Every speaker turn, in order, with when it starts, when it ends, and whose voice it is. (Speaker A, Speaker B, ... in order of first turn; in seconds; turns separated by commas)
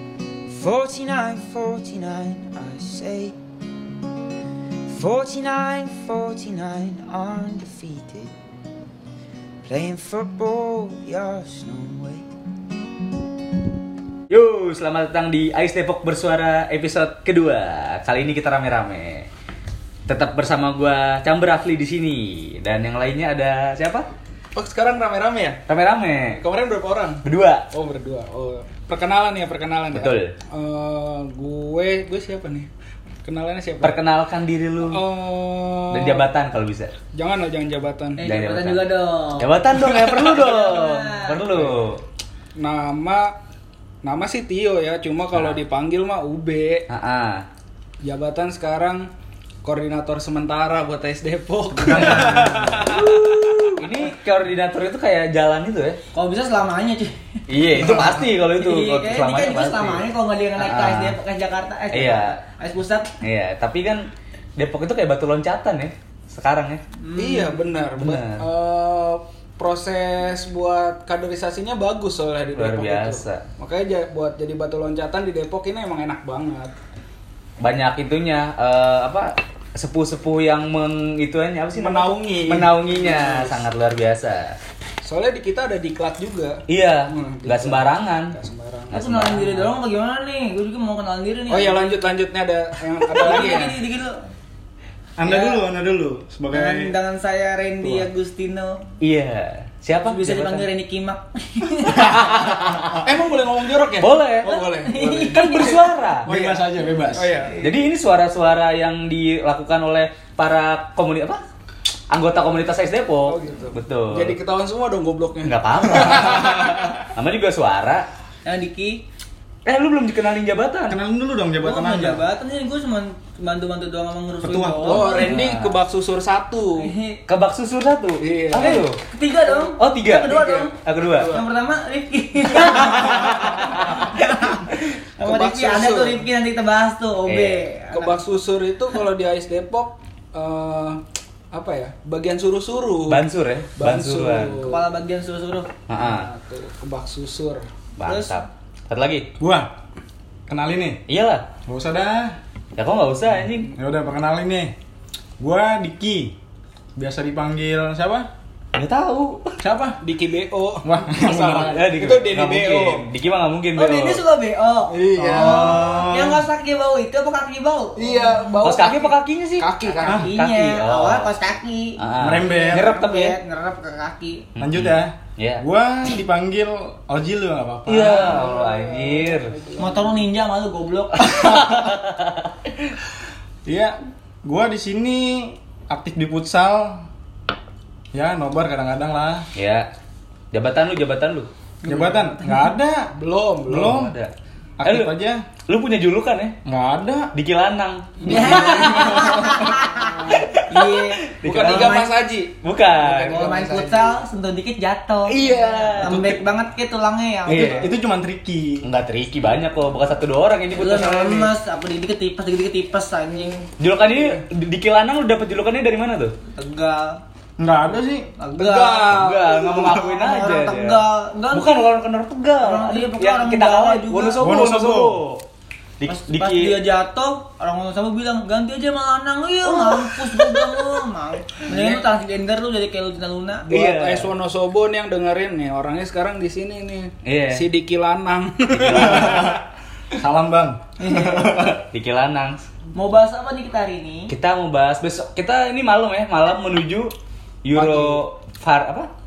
Speaker A: 0.5-3.4, Speaker A: 4.9-8.3, Speaker A: 9.6-12.2, Speaker B: 14.3-19.3, Speaker B: 20.1-24.1, Speaker C: 24.5-25.6, Speaker B: 25.7-26.4, Speaker C: 26.3-32.7, Speaker B: 27.2-27.6, Speaker B: 29.9-30.3, Speaker C: 33.2-34.0, Speaker B: 33.8-35.0, Speaker C: 34.9-36.2, Speaker B: 35.9-36.9, Speaker C: 37.1-38.2, Speaker D: 38.2-41.4, Speaker B: 38.2-42.0, Speaker C: 42.6-43.3, Speaker C: 44.0-46.9, Speaker B: 45.3-45.6, Speaker B: 46.9-47.4, Speaker C: 48.0-49.1, Speaker C: 49.6-53.6, Speaker E: 51.7-52.9, Speaker D: 52.9-53.8, Speaker B: 53.8-56.0, Speaker D: 56.1-57.1, Speaker B: 57.5-60.0, Speaker E: 57.8-58.1, Speaker D: 57.9-63.2, Speaker B: 60.6-61.1, Speaker B: 61.9-62.4, Speaker B: 63.2-66.8, Speaker D: 67.0-67.6, Speaker C: 67.2-76.7, Speaker B: 68.0-68.4, Speaker B: 72.5-73.4, Speaker B: 77.6-84.5, Speaker C: 81.8-83.6, Speaker C: 85.0-88.9, Speaker B: 86.7-88.3, Speaker B: 88.9-89.7, Speaker D: 88.9-91.9, Speaker C: 91.5-93.8, Speaker D: 93.2-94.2, Speaker E: 95.2-96.9, Speaker D: 95.2-95.6, Speaker D: 96.5-98.8, Speaker B: 99.0-100.7, Speaker D: 100.0-102.5, Speaker E: 101.8-102.3, Speaker B: 101.9-103.0, Speaker C: 103.0-107.7, Speaker B: 104.0-104.5, Speaker D: 104.5-105.8, Speaker B: 105.3-106.3, Speaker E: 106.2-107.4, Speaker B: 107.6-111.4, Speaker B: 112.1-114.3, Speaker C: 113.2-116.9, Speaker B: 115.4-118.1, Speaker D: 118.4-119.0, Speaker B: 119.6-121.0, Speaker E: 120.9-122.2, Speaker D: 121.6-125.3, Speaker E: 124.4-125.1, Speaker C: 124.8-126.9, Speaker B: 125.1-125.8, Speaker D: 126.8-127.2, Speaker B: 127.3-129.0, Speaker C: 128.2-128.8, Speaker D: 129.0-138.2, Speaker B: 129.8-131.4, Speaker C: 130.2-131.4, Speaker B: 132.6-133.8, Speaker C: 135.2-136.2, Speaker B: 137.3-137.6, Speaker C: 137.9-141.0, Speaker C: 141.5-143.2, Speaker B: 143.1-144.7, Speaker C: 143.8-144.8, Speaker D: 144.6-145.7, Speaker B: 145.9-146.3, Speaker C: 145.9-147.6, Speaker B: 148.0-149.3, Speaker D: 148.0-148.4, Speaker E: 149.4-149.7, Speaker E: 150.5-151.0, Speaker B: 151.1-151.4, Speaker E: 151.7-152.4, Speaker B: 152.8-153.7, Speaker E: 153.7-154.7, Speaker E: 155.4-156.3, Speaker E: 156.9-158.3, Speaker B: 158.7-159.6, Speaker E: 159.6-160.0, Speaker C: 160.0-163.0, Speaker E: 160.8-161.8, Speaker B: 161.3-164.2, Speaker D: 163.8-168.4, Speaker C: 164.9-165.9, Speaker E: 165.2-166.4, Speaker C: 168.0-170.3, Speaker B: 168.6-171.3, Speaker D: 170.0-174.4, Speaker B: 172.0-173.4, Speaker E: 172.2-172.9, Speaker B: 174.6-175.6, Speaker E: 174.6-178.4, Speaker B: 177.9-179.5, Speaker C: 178.0-180.2, Speaker D: 179.8-181.3, Speaker B: 181.2-182.5, Speaker E: 181.2-181.9, Speaker E: 183.7-187.0, Speaker E: 188.1-189.5, Speaker B: 189.6-189.9, Speaker B: 190.5-191.5, Speaker D: 191.8-192.7, Speaker E: 191.9-193.1, Speaker C: 193.1-194.0, Speaker E: 193.7-194.2, Speaker B: 193.7-194.3, Speaker E: 194.8-195.4, Speaker B: 194.8-195.1, Speaker B: 195.7-196.5, Speaker E: 196.6-197.3, Speaker B: 197.3-199.7, Speaker D: 198.2-202.1, Speaker E: 198.2-199.8, Speaker C: 198.3-199.1, Speaker B: 200.3-202.1, Speaker C: 201.4-204.2, Speaker B: 202.6-203.5, Speaker D: 203.3-207.9, Speaker B: 205.3-206.2, Speaker E: 206.0-206.4, Speaker E: 207.4-208.8, Speaker B: 207.5-207.9, Speaker B: 208.8-211.5, Speaker D: 210.7-213.7, Speaker B: 213.8-216.3, Speaker C: 214.1-214.4, Speaker D: 216.5-217.2, Speaker E: 217.6-218.3, Speaker D: 218.4-221.9, Speaker C: 218.6-219.8, Speaker B: 219.1-225.4, Speaker D: 222.6-224.4, Speaker E: 224.4-225.2, Speaker B: 226.0-226.8, Speaker D: 226.1-233.7, Speaker B: 229.6-231.0, Speaker B: 233.7-234.3, Speaker C: 233.7-239.6, Speaker B: 237.2-237.6, Speaker B: 238.7-239.5, Speaker E: 238.9-239.6, Speaker E: 240.1-241.8, Speaker D: 241.0-241.5, Speaker B: 241.9-242.6, Speaker D: 242.9-244.3, Speaker B: 244.3-247.1, Speaker B: 247.6-249.1, Speaker C: 247.7-248.2